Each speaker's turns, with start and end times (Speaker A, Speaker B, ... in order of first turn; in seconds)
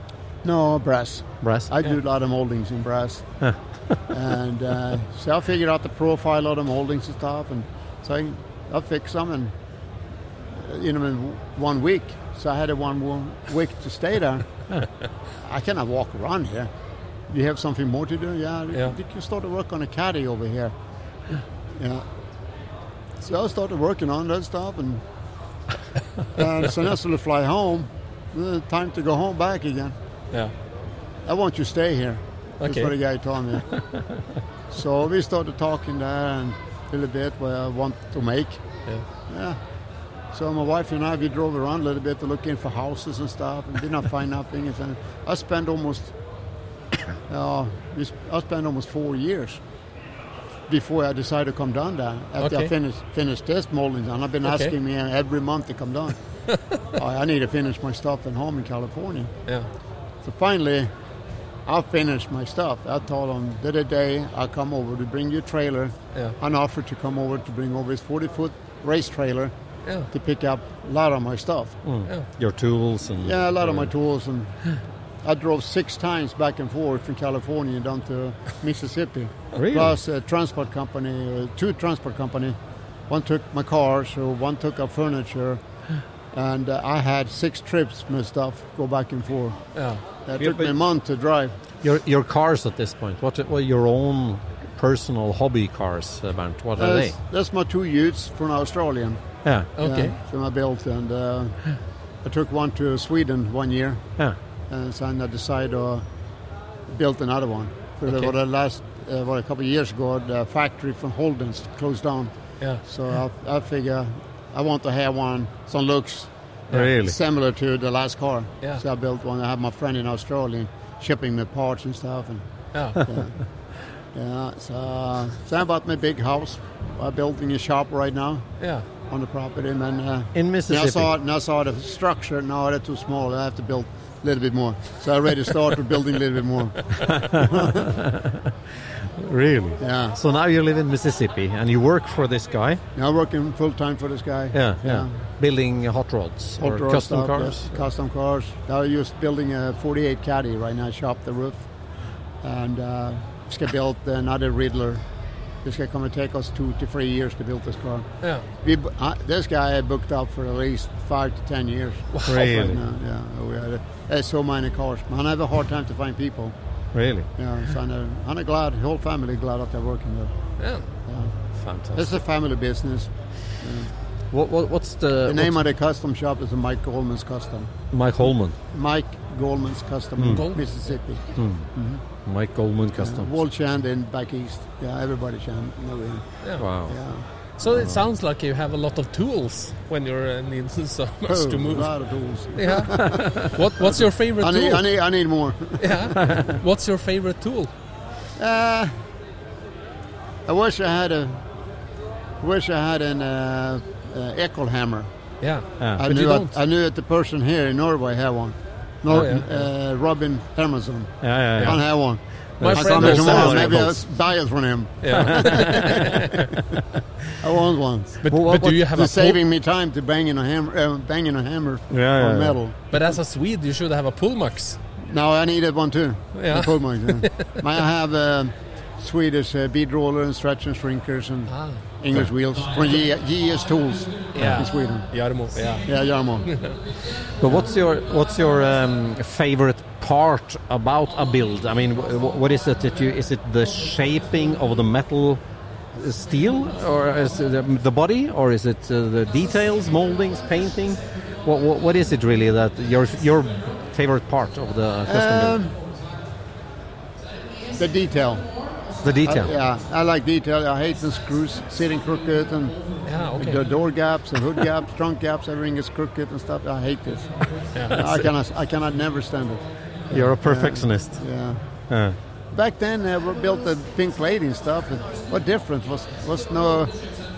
Speaker A: 0.4-3.2, 4.1-9.5, 10.5-14.5, 15.4-16.7, 17.3-20.7, 21.8-22.1, 23.2-25.0, 26.3-29.9, 31.2-33.8, 34.7-38.6, 39.3-39.6, 40.3-46.1, 47.3-49.6, 50.7-56.1, 57.0-59.3, 60.2-60.9, 61.6-69.5, 70.1-71.8, 73.2-74.6, 75.2-82.6, 83.1-85.6, 86.3-89.6, 90.2-91.5, 96.8-99.2, 99.8-101.6, 102.2-104.0, 104.7-106.0, 106.9-112.3, 112.8-116.3, 117.0-122.4, 122.9-123.3, 124.1-128.4, 129.1-137.9, 139.8-140.2, 142.9-145.1, 146.6-151.6, 152.4-155.0, 155.6-158.1, 158.6-166.5, 167.4-170.3, 171.1-171.3, 171.9-173.1, 173.6-173.9, 175.3-177.7, 178.7-181.2, 181.7-182.0, 183.0-186.2, 186.9-187.2, 191.3-196.3, 198.4-198.9, 200.5-201.4, 202.4-205.1, 206.0-216.5, 217.4-218.2, 218.9-222.8, 225.1-235.1, 235.8-236.5, 255.1-255.8, 257.8-258.5, 259.2-267.3, 267.9-271.6, 272.5-276.9
Speaker B: 1.4-1.7, 71.8-73.9, 79.5-80.0, 90.4-90.7, 91.8-97.1, 116.7-117.2, 130.3-131.1, 137.1-138.4, 139.2-142.8, 144.5-147.7, 162.2-162.8, 166.9-167.3, 171.6-172.2, 174.3-175.6, 177.9-178.6, 180.2-180.4, 181.3-181.7, 182.2-183.3, 186.6-186.9, 187.7-188.0, 209.1-209.4, 211.2-211.8, 212.6-214.0, 215.1-215.7, 218.3-218.8, 221.9-222.6, 237.4-245.4, 245.9-255.6, 259.0-259.5, 270.1-271.2, 271.9-272.1
Speaker C: 32.6-32.9, 52.4-52.7, 54.4-54.7, 89.7-90.0, 99.8-100.1, 108.1-108.3, 122.7-123.0, 128.6-128.8, 170.6-170.8, 180.3-180.6, 187.6-191.9, 192.5-194.8, 195.8-197.7, 205.4-206.6, 209.1-209.4, 212.6-213.8, 215.0-216.5, 218.2-219.4, 222.9-224.8, 226.4-227.6, 231.5-231.8, 234.3-235.9, 236.5-236.8, 263.0-263.6, 267.7-268.3